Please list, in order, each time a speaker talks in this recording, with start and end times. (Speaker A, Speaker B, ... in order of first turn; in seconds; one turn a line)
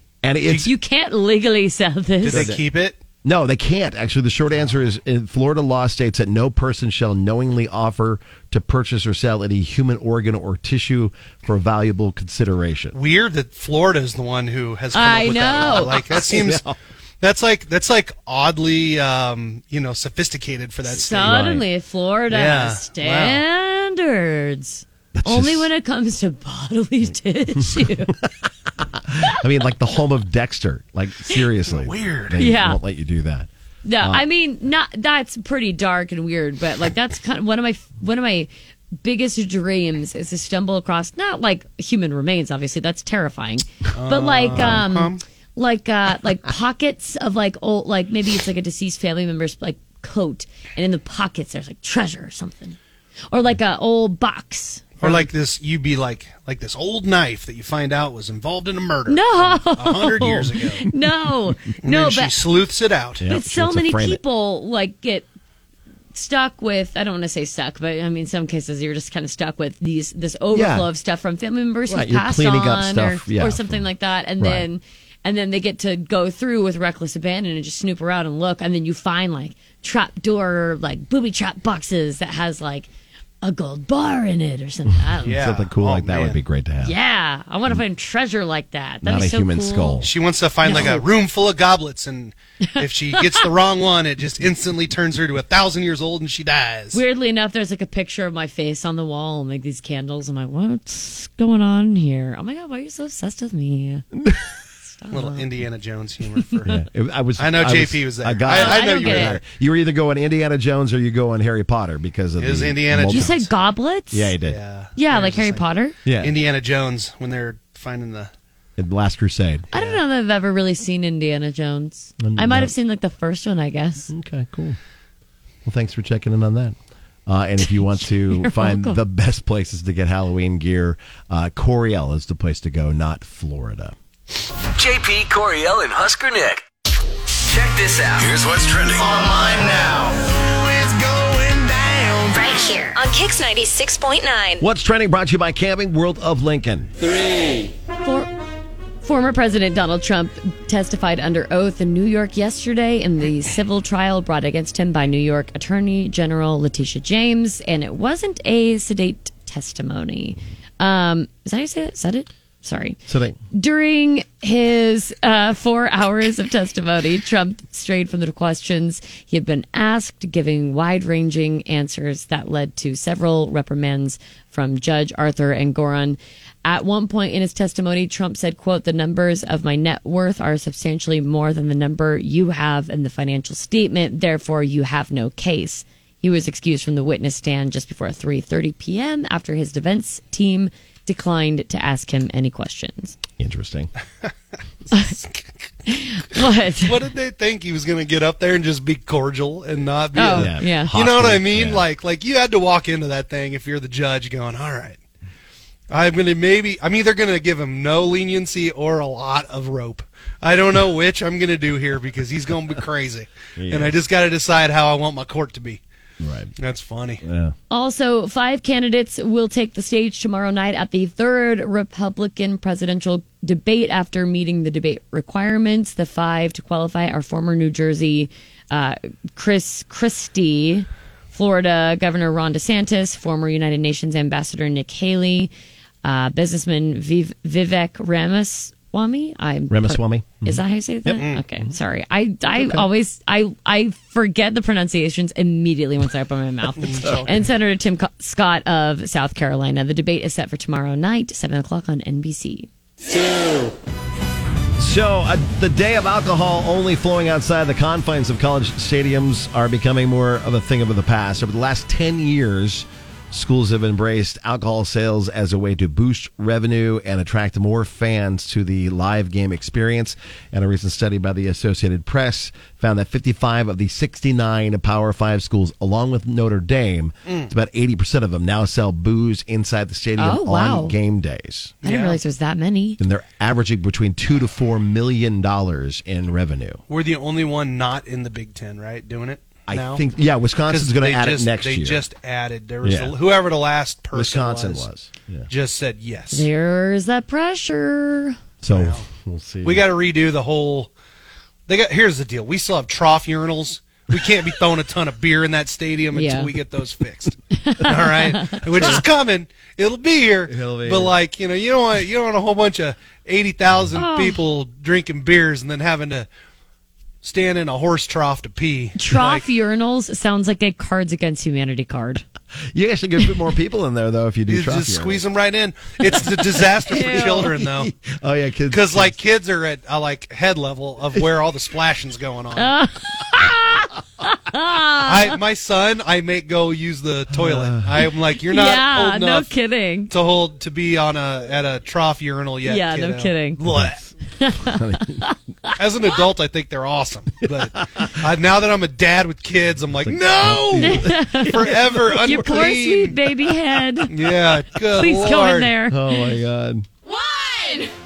Speaker A: 0.2-0.7
Speaker B: 0.6-2.5
Speaker C: 2.2-3.0
Speaker A: 2.3-2.6
Speaker A: 3.2-12.9
Speaker C: 12.9-16.6
Speaker B: 14.9-16.0
Speaker A: 15.7-16.7
Speaker C: 17.2-21.4
Speaker B: 20.9-28.1
Speaker A: 21.1-21.6
Speaker C: 22.3-23.4
Speaker A: 25.1-25.7
Speaker A: 27.6-33.5
Speaker C: 31.7-32.4
Speaker B: 32.4-32.8
Speaker B: 33.8-38.5
Speaker A: 34.0-34.2
Speaker B: 39.0-52.8
Speaker C: 43.9-45.2
Speaker A: 44.5-44.8
Speaker B: 53.3-55.3
Speaker C: 55.0-60.9
Speaker B: 59.1-62.3
Speaker C: 61.8-63.2
Speaker A: 63.2-64.2
Speaker B: 63.3-65.3
Speaker B: 66.1-82.9
Speaker A: 70.5-70.9
Speaker A: 71.9-73.8
Speaker A: 74.4-74.7
Speaker B: 83.4-85.3
Speaker A: 85.2-86.9
Speaker C: 85.2-86.4
Speaker B: 86.8-90.0
Speaker A: 89.0-90.1
Speaker C: 90.0-97.0
Speaker B: 90.6-91.0
Speaker B: 92.7-93.5
Speaker B: 96.9-104.0
Speaker B: 104.8-105.5
Speaker C: 105.1-106.7
Speaker A: 106.6-113.4
Speaker C: 107.4-109.4
Speaker B: 108.5-109.4
Speaker C: 112.4-113.5
Speaker B: 113.1-114.3
Speaker A: 114.1-114.6
Speaker C: 114.4-115.7
Speaker B: 115.0-115.9
Speaker A: 116.0-116.3
Speaker C: 116.2-118.3
Speaker A: 118.8-119.7
Speaker B: 119.7-124.1
Speaker A: 122.2-122.7
Speaker A: 124.1-124.8
Speaker A: 125.6-133.9
Speaker B: 127.6-129.0
Speaker D: 134.8-136.6
Speaker D: 137.5-139.0
Speaker A: 138.9-142.4
Speaker E: 142.3-144.6
Speaker A: 144.6-146.9
Speaker B: 148.0-148.3
Speaker B: 149.0-163.0
Speaker A: 163.1-163.4
Speaker B: 163.5-193.2
Speaker A: 193.4-193.9
Speaker C: 194.9-195.5
Speaker B: 195.9-197.0
Speaker C: 196.8-205.0
Speaker B: 200.1-200.9
Speaker A: 200.3-201.8
Speaker C: 205.9-215.8
Speaker A: 213.6-214.0
Speaker A: 216.2-216.5
Speaker C: 216.6-217.2
Speaker A: 217.2-217.5
Speaker B: 217.7-235.5
Speaker B: 236.0-252.7
Speaker A: 239.7-241.2
Speaker A: 242.6-242.8
Speaker C: 246.8-247.4
Speaker A: 254.8-281.8
Speaker C: 277.2-277.5
Speaker B: 280.2-280.9
Speaker C: 281.8-282.2
Speaker B: 281.8-283.0
Speaker A: 283.0-286.8
Speaker C: 286.9-290.0
Speaker A: 289.7-292.0
Speaker C: 290.7-294.9
Speaker A: 292.8-293.1
Speaker A: 294.1-295.5
Speaker C: 295.5-296.5
Speaker B: 296.3-298.4
Speaker A: 298.6-299.9
Speaker C: 298.7-299.0
Speaker C: 299.6-300.9
Speaker C: 301.7-316.3
Speaker B: 306.1-306.5
Speaker B: 307.6-309.0
Speaker A: 310.4-311.1
Speaker B: 313.9-314.4
Speaker C: 317.2-319.4
Speaker B: 319.0-322.2
Speaker A: 322.7-325.2
Speaker C: 324.5-327.9
Speaker B: 326.9-327.5
Speaker A: 326.9-329.1
Speaker C: 328.7-332.7
Speaker B: 332.6-335.3
Speaker C: 335.0-339.5
Speaker A: 337.3-338.0
Speaker B: 338.5-340.1
Speaker C: 340.1-344.0
Speaker B: 342.6-343.6
Speaker A: 343.7-343.9
Speaker B: 344.4-345.7
Speaker A: 344.6-345.3
Speaker C: 345.8-353.2
Speaker A: 347.4-348.1
Speaker A: 350.0-352.0
Speaker B: 350.8-354.1
Speaker C: 354.1-355.7
Speaker B: 355.0-356.2
Speaker A: 355.9-356.9